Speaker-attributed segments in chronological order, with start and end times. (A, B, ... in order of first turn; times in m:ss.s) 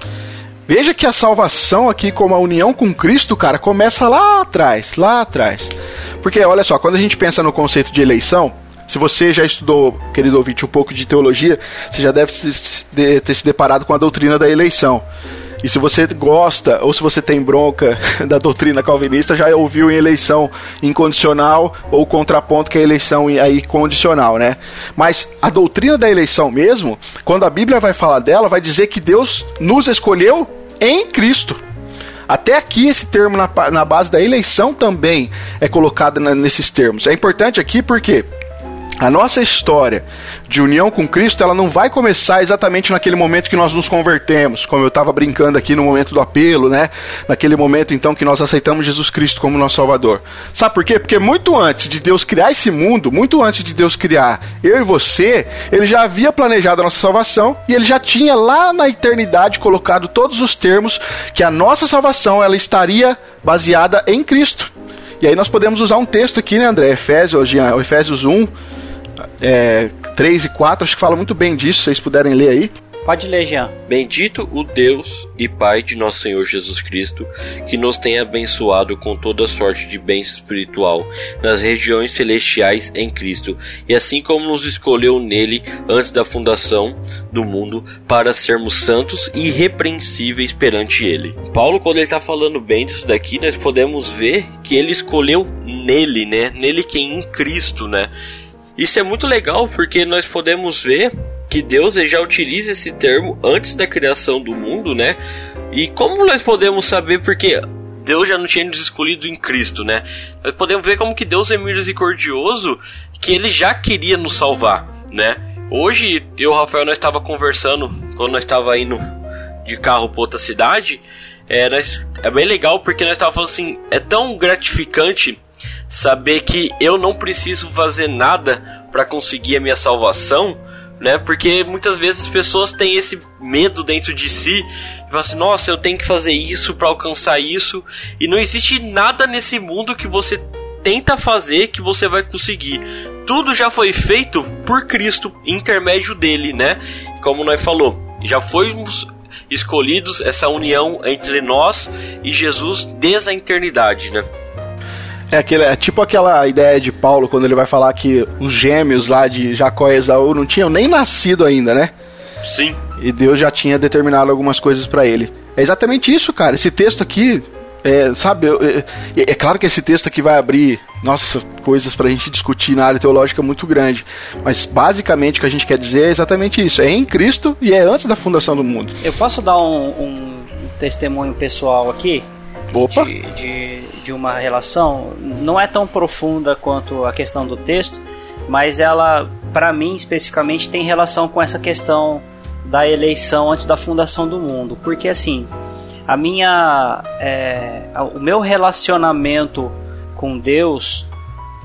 0:00.7-0:15.0 A
0:15.6-0:31.6 A
0:32.3-0:38.3 A
0:39.0-1:08.5 A
1:09.4-1:12.7 A
1:13.1-1:13.7 B
1:13.9-1:38.1 C
1:38.8-1:45.2 C
1:45.7-1:59.1 C
1:59.6-2:34.3 C
2:35.3-2:41.9 A
2:42.4-2:42.8 C
2:43.0-2:59.0 A
2:59.0-3:02.2 B
3:02.7-3:03.1 A
3:02.9-3:15.5 B
3:16.1-3:21.1 B